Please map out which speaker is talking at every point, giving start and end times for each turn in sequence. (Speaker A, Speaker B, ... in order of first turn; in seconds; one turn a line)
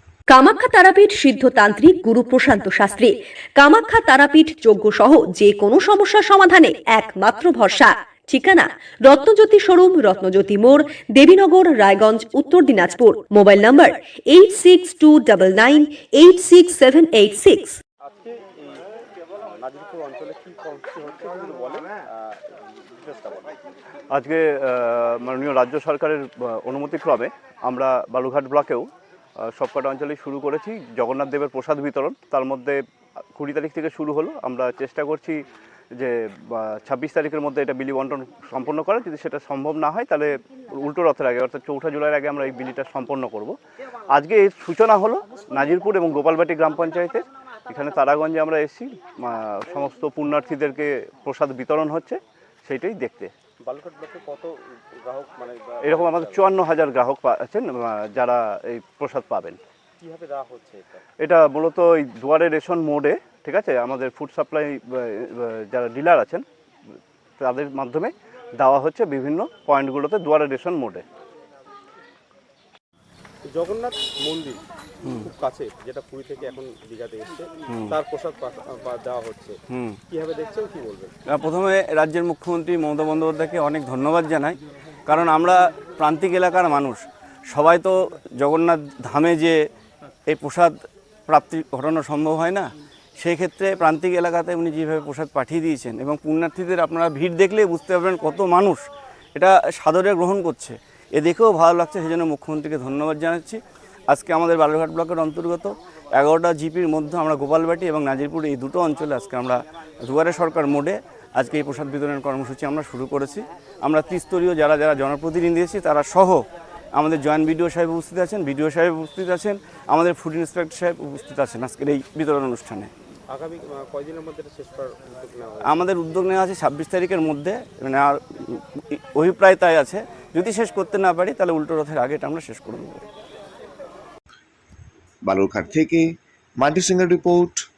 Speaker A: 0.3-17.8
Speaker B: 18.0-18.9
Speaker B: 19.5-23.6
Speaker C: 24.1-28.9
Speaker C: 29.4-32.8
Speaker C: 33.4-35.4
Speaker C: 36.0-43.6
Speaker C: 44.1-53.3
Speaker B: 53.6-56.6
Speaker C: 55.9-59.6
Speaker B: 60.0-61.0
Speaker C: 61.2-66.4
Speaker C: 67.4-71.0
Speaker B: 73.5-81.1
Speaker D: 77.7-78.0
Speaker D: 79.7-80.0
Speaker D: 81.3-89.6
Speaker D: 90.3-90.8
Speaker D: 91.3-98.8
Speaker D: 99.4-122.9
Speaker B: 123.3-125.8
Speaker D: 125.6-133.1
Speaker E: 135.3-137.6